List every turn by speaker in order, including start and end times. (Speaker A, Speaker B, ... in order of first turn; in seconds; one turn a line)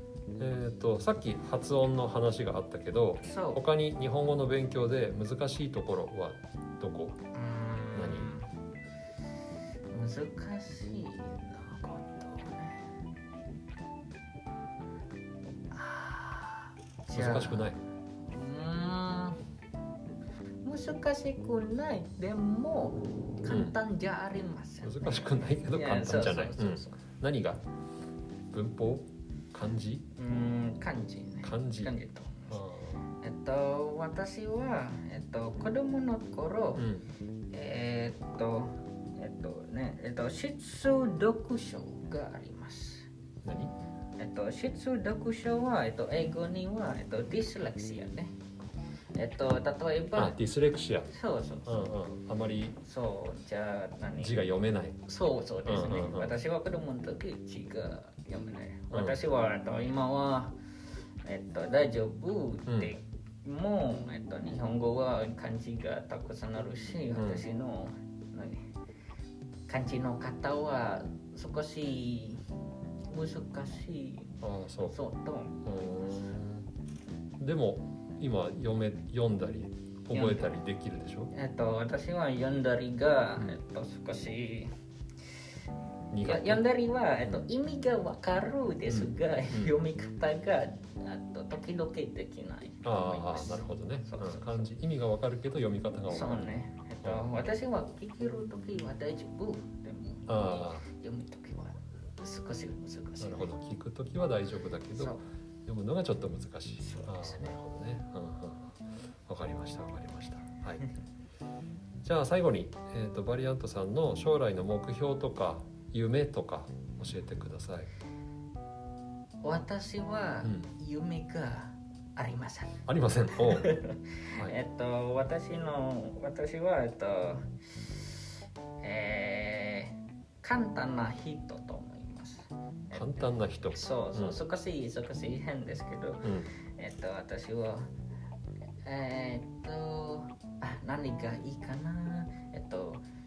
Speaker A: 0.4-7.2
Speaker B: 3.2-3.6
Speaker B: 7.3-8.5
Speaker A: 7.9-8.3
Speaker B: 9.9-12.9
Speaker B: 15.7-17.7
Speaker A: 17.1-17.8
Speaker B: 18.2-19.4
Speaker B: 20.6-27.0
Speaker A: 23.5-23.8
Speaker A: 24.8-27.6
Speaker A: 28.5-30.0
Speaker B: 30.1-32.6
Speaker A: 31.4-31.9
Speaker A: 32.5-33.0
Speaker B: 33.1-36.9
Speaker A: 36.8-37.0
Speaker B: 37.5-43.1
Speaker A: 43.4-43.7
Speaker B: 44.2-48.3
Speaker B: 49.1-50.4
Speaker A: 50.1-51.1
Speaker B: 51.1-51.9
Speaker A: 51.6-52.8
Speaker B: 52.8-54.4
Speaker A: 54.2-55.0
Speaker B: 55.0-60.6
Speaker A: 55.6-56.3
Speaker A: 58.9-59.2
Speaker B: 61.2-68.7
Speaker A: 62.7-62.9
Speaker A: 67.1-67.4
Speaker B: 69.7-72.4
Speaker B: 73.1-76.3
Speaker A: 74.4-75.0
Speaker A: 75.6-76.7
Speaker A: 77.4-81.3
Speaker B: 80.1-80.5
Speaker B: 81.3-84.7
Speaker A: 86.1-86.6
Speaker B: 86.2-94.7
Speaker A: 88.9-89.8
Speaker A: 92.8-97.4
Speaker B: 96.1-103.5
Speaker A: 100.3-100.8
Speaker A: 103.2-110.9
Speaker B: 105.0-105.2
Speaker B: 106.8-107.6
Speaker A: 112.0-117.9
Speaker B: 119.4-128.2
Speaker A: 120.4-120.7
Speaker A: 122.9-123.8
Speaker B: 128.8-137.8
Speaker A: 132.9-134.4
Speaker A: 136.2-136.5
Speaker B: 138.8-143.0